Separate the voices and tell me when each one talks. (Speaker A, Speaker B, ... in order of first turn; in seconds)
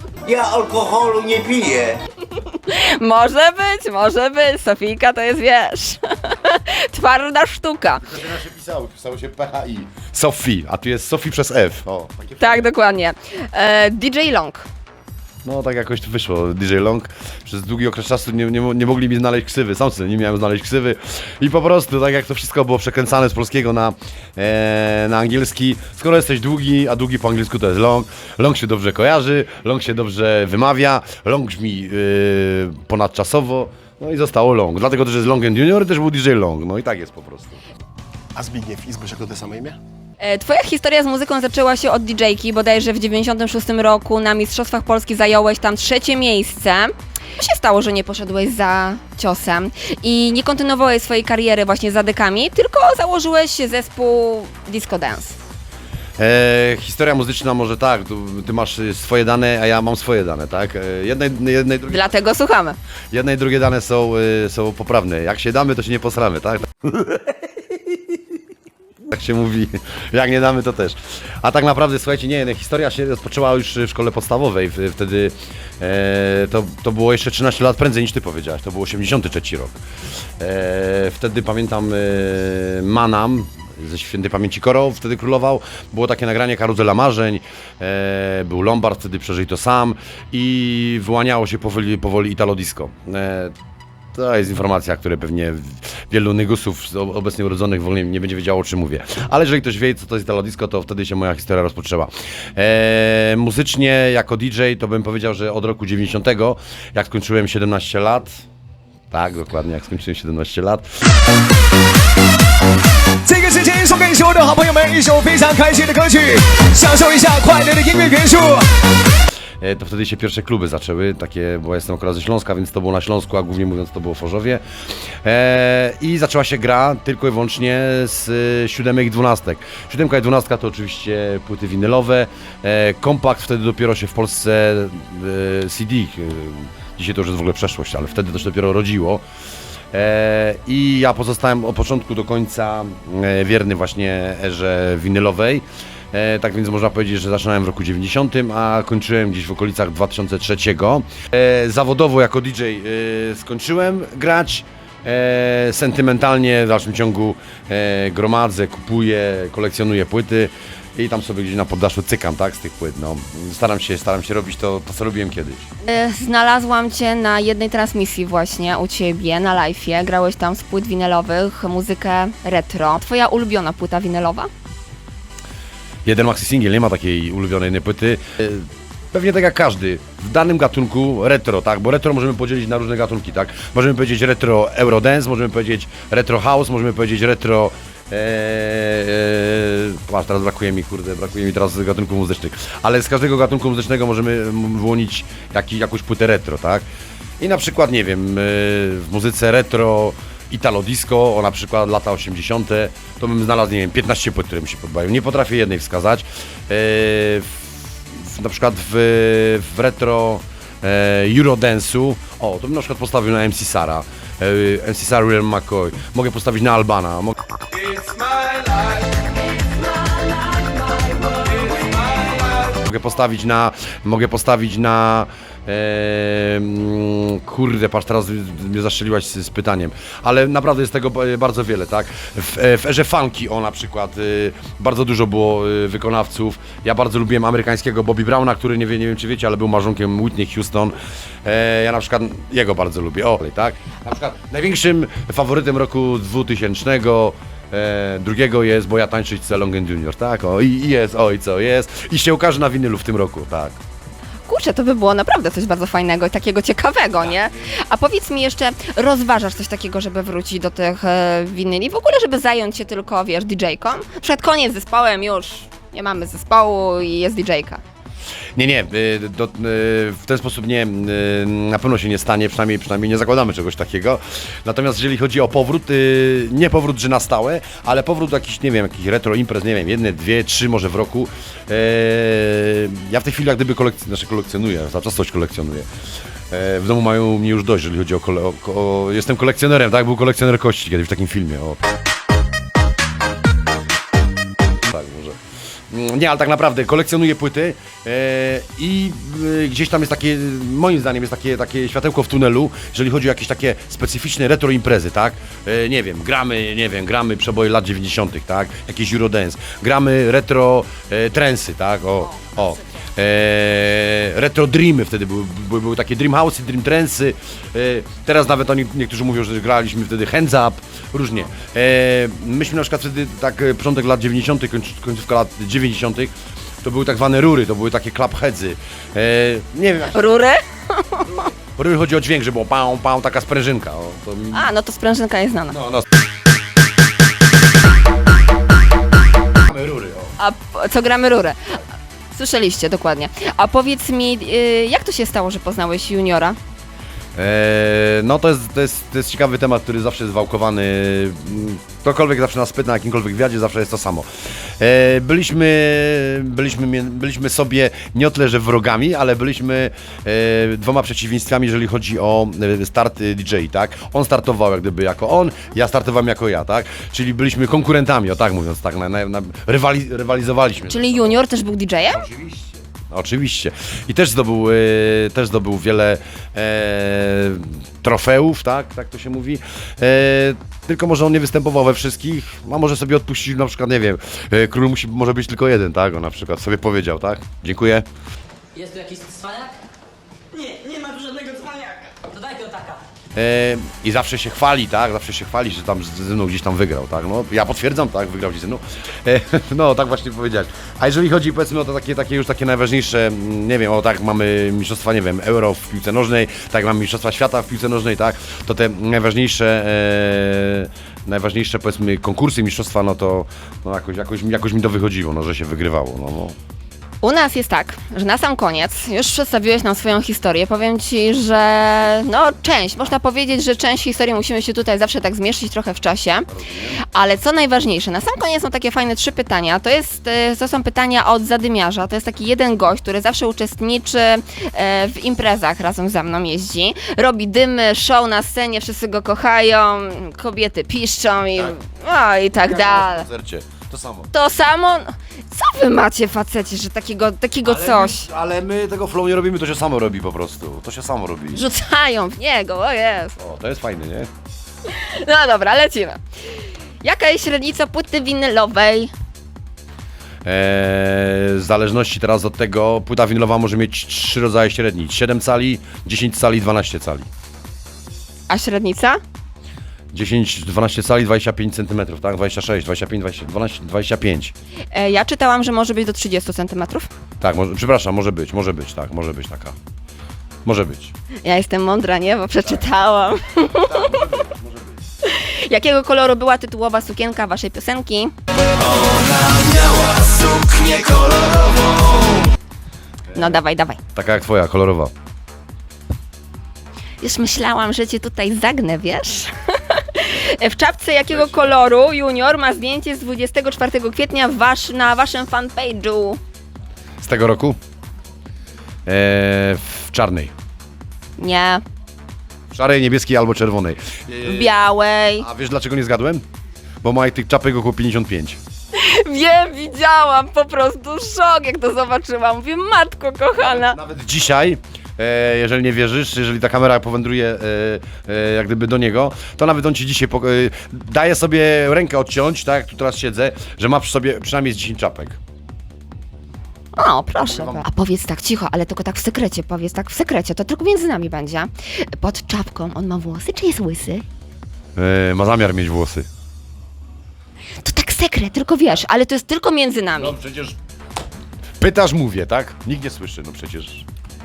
Speaker A: 1.1-2.0, 38.4-39.8
Speaker B: 2.3-8.2, 12.4-14.7, 40.2-55.4, 61.9-62.8, 165.8-174.5, 254.5-267.8, 330.1-331.4, 334.5-335.8, 340.4-341.8, 342.3-346.6, 370.9-372.3, 417.2-426.5, 427.0-443.2, 444.3-448.2, 451.5-453.4, 454.9-456.2, 457.0-459.1, 468.5-469.2, 474.9-477.1, 481.4-484.2, 485.2-492.1, 493.3-494.0, 497.2-506.4, 511.4-511.8, 514.4-515.5, 518.9-524.0, 536.9-544.2, 547.8-550.4
Speaker C: 8.0-12.7, 15.4-37.6, 56.2-62.1, 63.1-66.7, 69.1-79.8, 80.4-93.5, 94.2-108.4, 109.1-110.9, 119.6-124.6, 125.2-139.2, 139.9-165.7, 176.1-196.9, 197.4-218.1, 222.4-253.8, 268.6-285.9, 286.5-291.8, 294.8-295.4, 295.9-330.3, 331.8-334.7, 335.7-336.0, 339.6-340.3, 347.4-371.4, 372.2-388.1, 393.3-416.6, 426.5-427.0, 442.6-444.3, 447.6-451.6, 453.4-454.3, 460.4-467.3, 470.1-474.5, 477.4-479.8, 480.6-481.1, 483.8-484.9, 493.3-493.6, 494.1-495.1, 501.3-501.7, 507.2-507.8, 509.1-510.5, 512.7-514.8, 515.4-516.4, 517.0-518.6, 523.6-535.4, 537.4-537.8, 545.0-546.2, 550.2-550.8, 551.8-554.0
Speaker D: 113.2-118.7
Speaker E: 218.3-218.8, 220.2-221.9, 388.8-389.8, 390.5-393.0